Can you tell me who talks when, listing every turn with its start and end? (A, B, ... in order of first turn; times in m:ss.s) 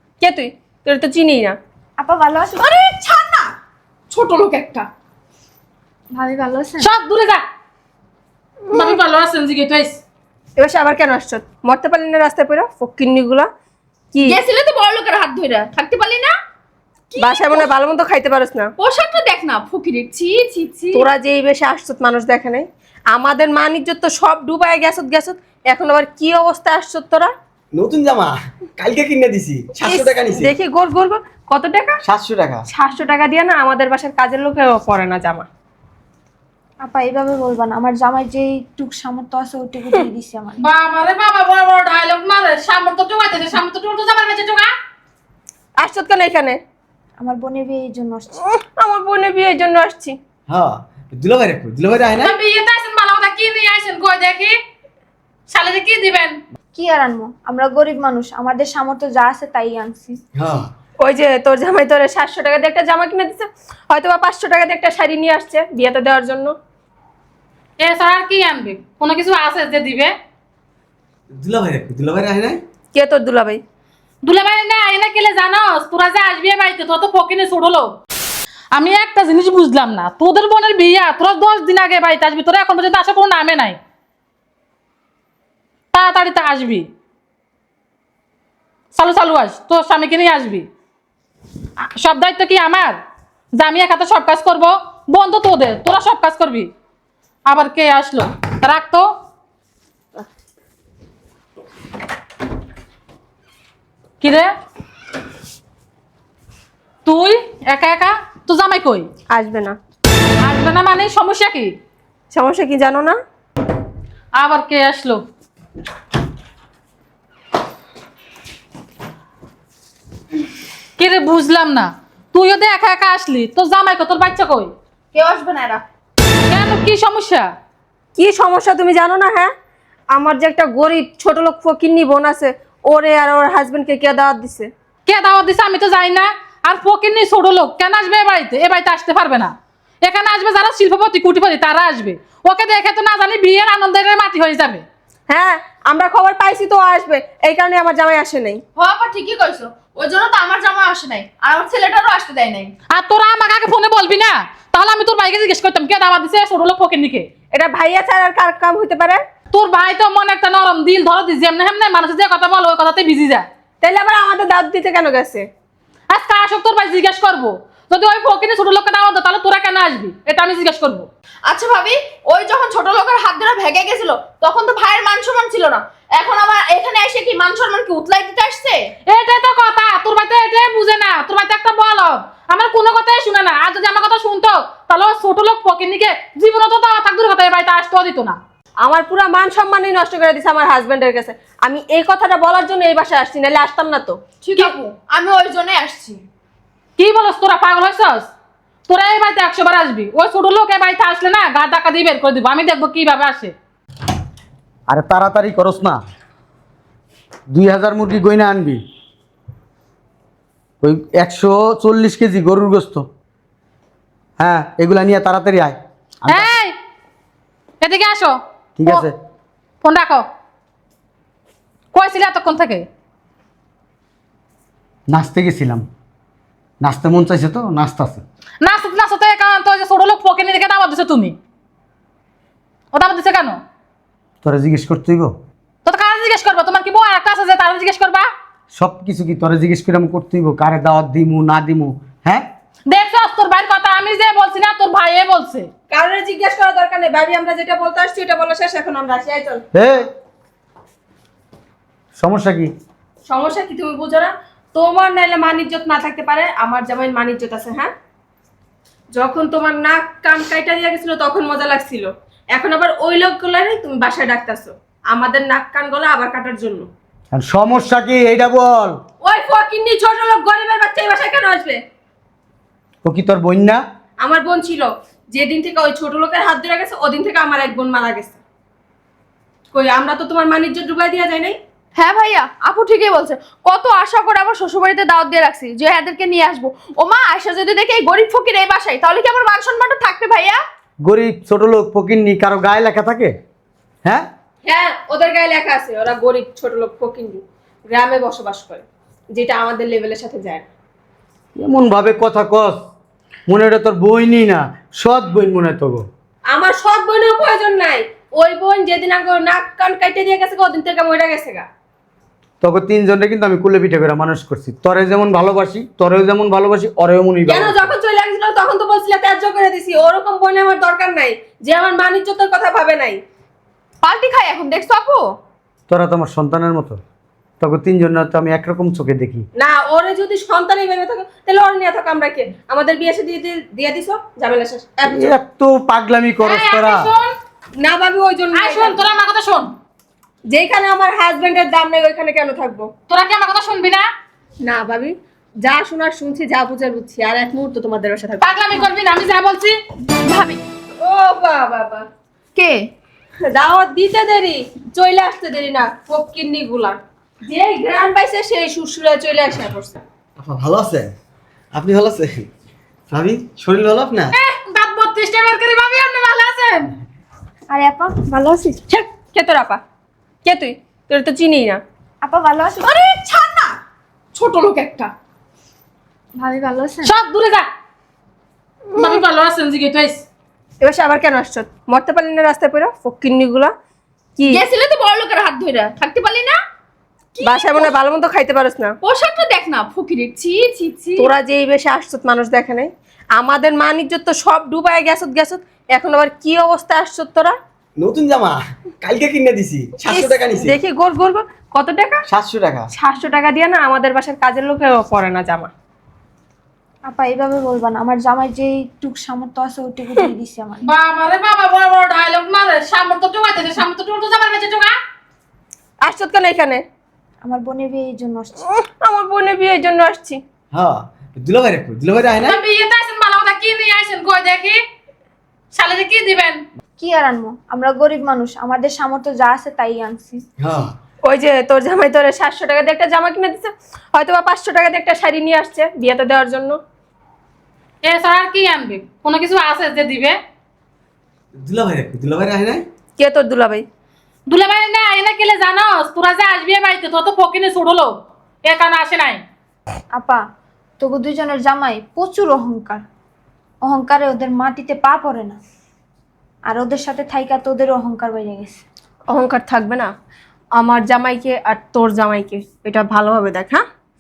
0:00.2-0:01.6 A
0:02.0-0:02.6 B
0:02.6-0:03.5 C
0:04.2-0:04.8 C
0:06.1-0:06.9 B
0:06.8-0:07.4 D
0:08.7-0:10.0 D
0:10.6-0:13.5 A
0:14.1-0:14.4 A
0:14.3-0:16.3 C
0:17.1-0:17.7 C
0:17.2-0:18.7 A
0:18.8-0:21.0 C
0:20.9-0:27.3 A
0:27.8-0:30.5 E
0:29.8-0:32.0 A
0:32.1-0:32.6 E
0:32.7-0:35.5 A
0:36.8-0:40.6 B
0:40.6-0:44.7 D
0:45.8-0:46.6 A
0:47.2-0:48.4 B
0:48.4-0:50.2 A
0:50.5-0:52.3 E
0:52.2-0:54.5 D
0:55.5-0:56.4 D
0:56.8-1:00.2 B
1:00.4-1:00.7 E
1:01.0-1:06.5 A
1:07.8-1:10.1 D
1:11.4-1:12.6 E
1:12.9-1:13.6 A
1:14.2-1:18.0 D
1:18.7-1:23.8 D
1:25.9-1:26.9 D
1:29.0-1:30.7 D
1:32.0-1:33.0 D
1:33.6-1:36.7 D
1:37.5-1:39.1 D
1:44.2-1:44.5 D
1:47.0-1:49.1 D
1:49.3-1:49.8 A
1:50.4-1:51.7 D
1:52.3-1:53.2 A
1:54.4-1:55.2 D
2:01.0-2:04.7 D
2:05.1-2:05.8 C
2:06.5-2:07.5 D
2:08.2-2:09.5 A
2:10.1-2:14.7 A
2:15.1-2:24.8 D
2:25.3-2:28.6 A
2:28.8-2:32.7 C
2:32.9-2:37.3 D
2:37.5-2:39.2 A
2:39.5-2:43.4 D
2:43.8-2:45.5 A
2:46.1-2:51.1 D
2:51.4-2:58.9 C
2:59.1-3:08.4 D
3:08.8-3:14.7 A
3:14.4-3:16.2 C
3:17.0-3:18.3 D
3:18.9-3:23.5 D
3:24.9-3:26.0 F
3:27.5-3:28.8 F
3:30.8-3:33.0 F
3:34.4-3:36.5 F
3:36.3-3:36.7 D
3:37.8-3:39.1 D
3:38.8-3:39.1 F
3:39.8-3:40.2 D
3:41.9-3:42.8 D
3:45.1-3:45.8 F
3:46.8-3:48.2 F
3:48.6-3:51.4 D
3:52.9-3:53.6 D
3:54.4-3:55.3 F
3:55.8-3:58.3 D
3:58.7-4:02.4 F
4:02.9-4:05.7 D
4:05.9-4:09.6 A
4:09.7-4:10.1 F
4:12.2-4:12.7 F
4:13.3-4:17.9 A
4:19.1-4:26.9 A
4:27.3-4:29.0 F
4:29.2-4:31.8 A
4:33.0-4:33.8 F
4:34.2-4:38.4 A
4:39.7-4:41.6 A
4:42.0-4:50.6 C
4:51.1-4:53.3 F
4:54.6-5:00.7 A
5:01.6-5:02.8 F
5:03.5-5:06.0 F
5:06.5-5:11.7 A
5:12.6-5:17.9 F
5:17.5-5:23.2 A
5:24.0-5:25.4 C
5:25.9-5:27.0 F
5:27.6-5:29.4 F
5:29.6-5:35.3 A
5:35.0-5:37.1 F
5:36.4-5:37.4 D
5:37.8-5:39.0 A
5:38.5-5:39.7 D
5:40.5-5:42.9 A
5:43.1-5:44.1 D
5:44.6-5:48.7 A
5:48.4-5:49.8 D
5:50.2-5:50.6 C
5:51.0-5:52.1 A
5:52.6-5:52.9 C
5:53.5-6:00.0 A
6:00.4-6:01.1 E
6:01.7-6:02.5 E
6:03.1-6:04.4 E
6:04.3-6:06.9 D
6:07.7-6:08.2 B
6:08.3-6:09.8 A
6:10.4-6:11.8 A
6:12.2-6:13.0 B
6:13.2-6:13.5 C
6:14.5-6:15.0 C
6:16.4-6:17.2 B
6:17.0-6:17.7 D
6:19.0-6:20.2 D
6:20.8-6:23.7 A
6:24.4-6:24.6 A
6:24.5-6:26.6 C
6:27.4-6:27.9 C
6:27.4-6:28.9 A
6:29.0-6:31.3 C
6:31.2-6:37.6 A
6:38.0-6:40.8 E
6:40.0-6:42.2 A
6:42.3-6:42.9 E
6:42.9-6:45.7 A
6:47.1-6:50.9 B
6:50.8-6:55.0 D
6:56.0-6:56.8 A
6:57.4-6:58.6 B
6:58.7-7:00.4 A
7:00.7-7:02.6 E
7:02.4-7:04.8 D
7:05.7-7:06.6 D
7:07.0-7:10.4 B
7:10.6-7:10.9 E
7:11.2-7:16.8 A
7:18.0-7:20.4 D
7:21.6-7:22.8 E
7:23.2-7:23.8 A
7:24.5-7:28.1 D
7:28.6-7:29.4 D
7:30.1-7:30.4 B
7:31.0-7:33.0 B
7:33.8-7:35.6 B
7:36.7-7:38.8 B
7:39.3-7:40.1 A
7:40.8-7:43.8 A